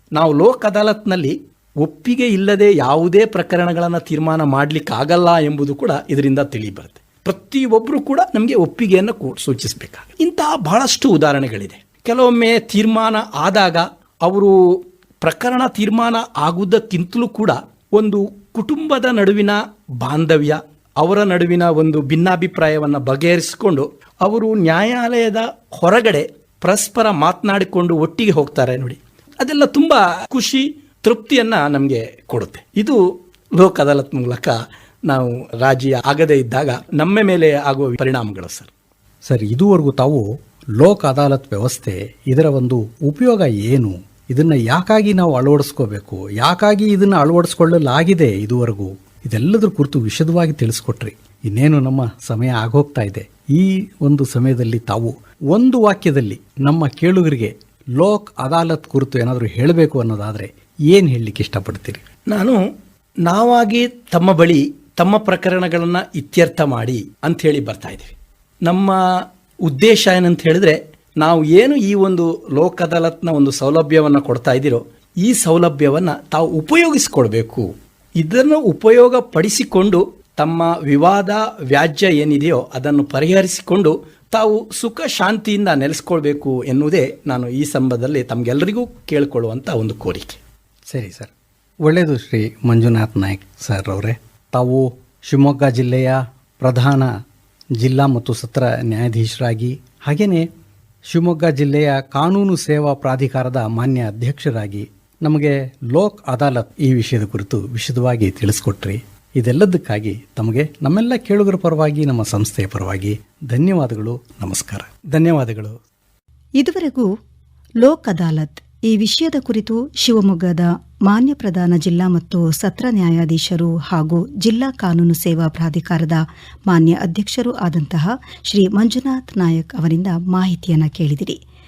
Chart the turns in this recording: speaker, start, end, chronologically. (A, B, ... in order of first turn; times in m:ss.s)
0:00.2-0:14.6 A
0:15.2-0:33.0 A
0:33.6-0:34.6 A
0:35.1-0:38.7 A
0:39.3-0:40.2 B
0:40.8-1:02.0 B
1:02.3-1:02.6 A
1:03.3-1:09.0 A
1:09.7-1:30.4 A
1:30.9-1:31.3 B
1:31.8-1:37.1 B
1:37.8-1:40.5 B
1:41.1-1:54.9 B
1:55.1-1:55.8 A
1:56.6-1:57.1 C
1:57.8-2:11.4 C